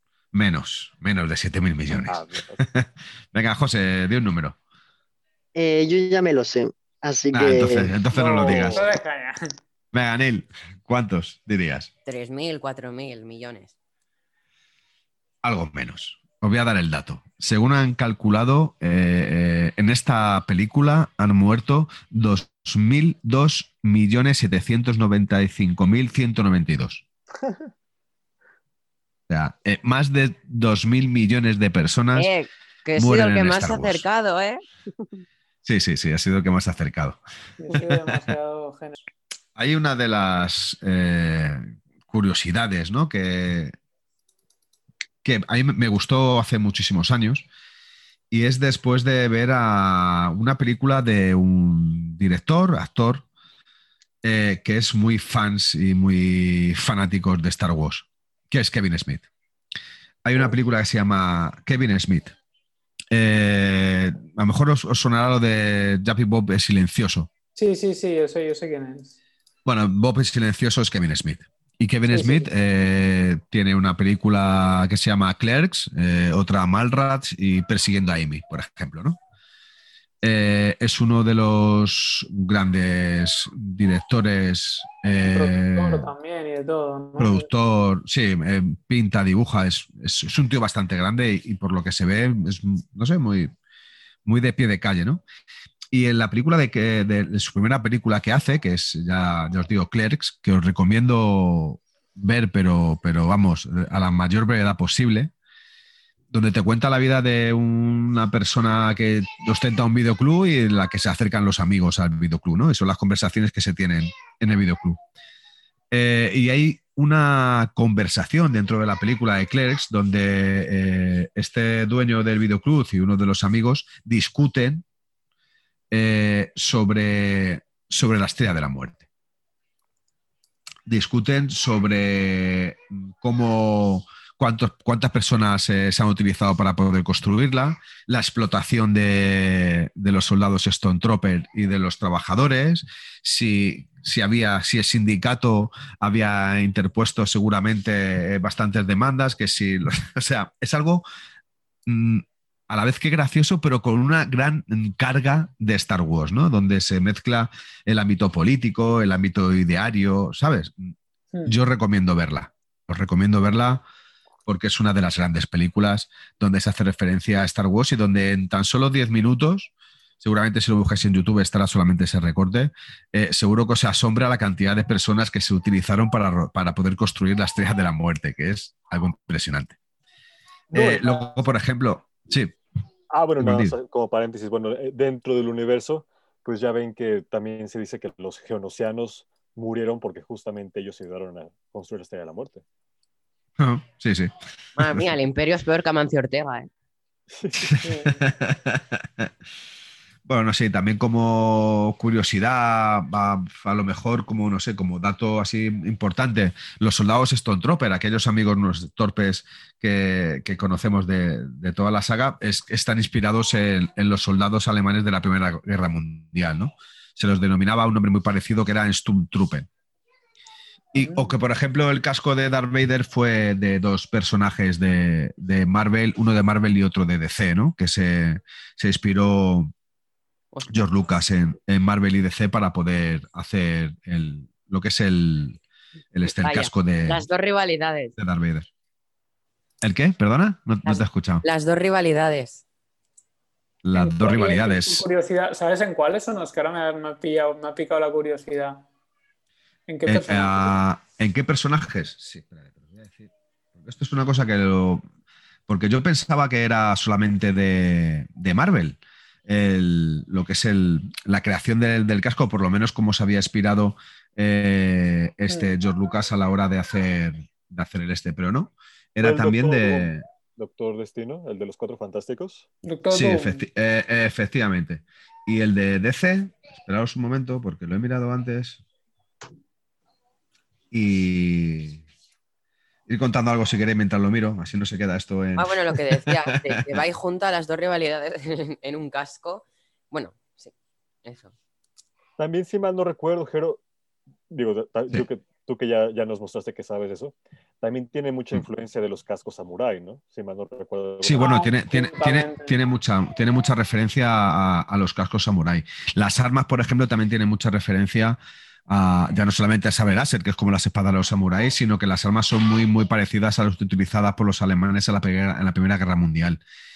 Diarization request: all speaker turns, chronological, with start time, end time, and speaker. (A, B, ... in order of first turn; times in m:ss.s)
0:00.3-0:04.6 A
0:02.0-0:02.6 B
0:05.5-0:08.0 C
0:07.3-0:08.8 A
0:08.0-0:09.6 D
0:08.4-0:09.0 B
0:09.9-0:11.9 A
0:12.0-0:13.7 E
0:15.4-0:27.0 A
0:27.4-0:27.7 B
0:29.3-0:32.3 A
0:32.1-0:34.6 E
0:32.9-0:34.0 A
0:35.6-0:37.2 A
0:37.6-0:39.0 D
0:37.7-0:38.0 A
0:39.6-0:43.7 A
0:45.2-0:47.5 A
0:48.3-0:53.2 A
0:54.2-0:59.3 A
1:00.2-1:02.4 A
1:03.1-1:07.3 A
1:07.5-1:09.2 D
1:09.6-1:19.2 A
1:12.1-1:12.5 D
1:20.2-1:26.1 A
1:25.2-1:27.5 D
1:27.2-1:33.5 A
1:34.2-1:35.2 A
1:35.9-1:45.3 A
1:46.3-1:55.0 A
1:55.9-2:04.8 A
2:05.9-2:09.1 A
2:10.9-2:31.0 A
2:31.8-2:40.9 A
2:41.4-2:43.8 A
2:44.5-2:59.8 A
3:00.7-3:01.4 B
3:00.7-3:02.5 A
3:03.1-3:12.6 B
3:03.4-3:03.7 A
3:13.6-3:15.1 A
3:14.8-3:16.7 E
3:17.3-3:17.8 B
3:17.6-3:19.3 A
3:17.8-3:18.2 D
3:20.2-3:39.7 A
3:40.9-3:49.7 A
3:50.5-3:50.8 E
3:50.7-3:55.6 A
3:56.1-3:57.2 A
3:56.2-3:58.2 E
3:58.2-3:58.7 A
3:59.8-4:01.4 A
4:00.8-4:02.6 E
4:03.8-4:05.0 A
4:03.9-4:08.8 D
4:09.9-4:10.8 D
4:10.0-4:15.0 A
4:15.7-4:30.2 A
4:25.5-4:25.8 D
4:29.2-4:32.7 B
4:32.8-4:33.6 D
4:33.1-4:38.8 A
4:40.9-4:42.0 A
4:43.1-4:47.0 A
4:45.6-4:50.7 E
4:51.2-4:51.5 E
4:52.4-4:53.8 B
4:54.5-5:01.5 B
5:01.2-5:16.6 A
5:01.4-5:02.8 D